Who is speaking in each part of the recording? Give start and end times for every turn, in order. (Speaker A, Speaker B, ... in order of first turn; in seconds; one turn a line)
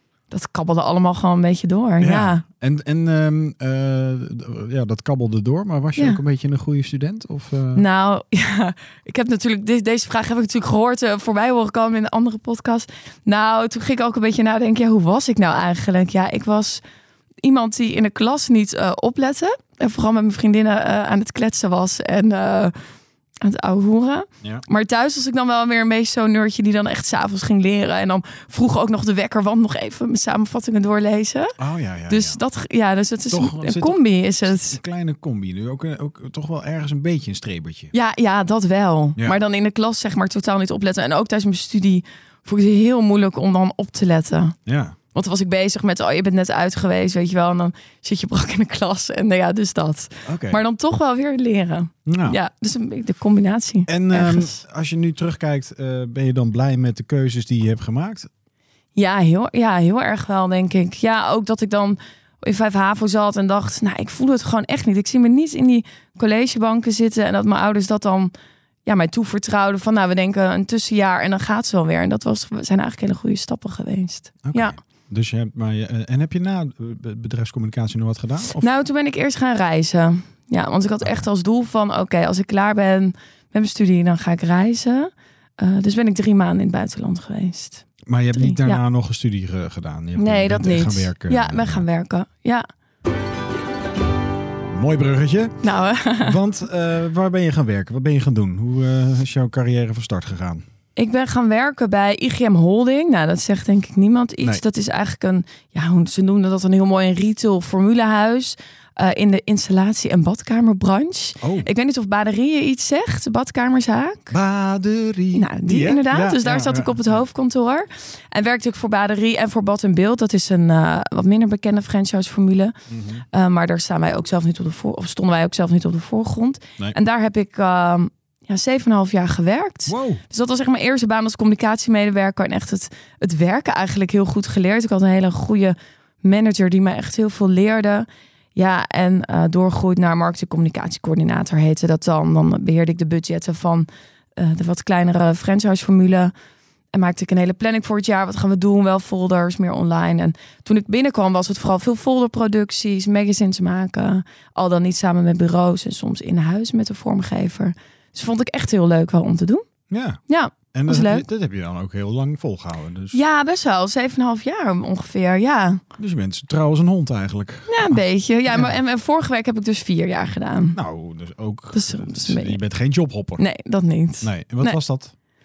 Speaker A: 0.3-2.5
Speaker B: 2.0-7.8
Speaker A: 6.0-6.2
Speaker A: 7.8-16.8
Speaker A: 17.4-22.7
Speaker A: 23.4-31.6
Speaker B: 31.6-32.4
Speaker A: 32.1-34.8
Speaker B: 33.3-37.9
Speaker A: 37.9-44.6
Speaker B: 44.7-45.0
Speaker A: 45.1-54.6
Speaker B: 50.2-50.6
Speaker B: 52.1-52.4
Speaker B: 53.9-58.3
Speaker A: 59.0-68.3
Speaker A: 68.9-74.8
Speaker B: 74.4-78.6
Speaker A: 78.6-88.8
Speaker B: 88.1-91.8
Speaker A: 90.2-92.7
Speaker B: 94.7-95.6
Speaker A: 95.6-96.4
Speaker B: 96.2-100.6
Speaker A: 101.0-114.3
Speaker B: 111.4-111.7
Speaker B: 114.3-117.2
Speaker A: 115.3-122.8
Speaker B: 122.9-123.2
Speaker A: 123.3-146.3
Speaker B: 129.9-130.2
Speaker A: 146.9-159.7
Speaker B: 159.9-160.2
Speaker A: 160.3-161.3
Speaker B: 160.7-163.2
Speaker A: 163.1-165.8
Speaker B: 166.0-168.8
Speaker A: 167.7-170.8
Speaker B: 170.8-173.4
Speaker A: 171.7-172.6
Speaker A: 173.4-174.8
Speaker B: 174.2-175.1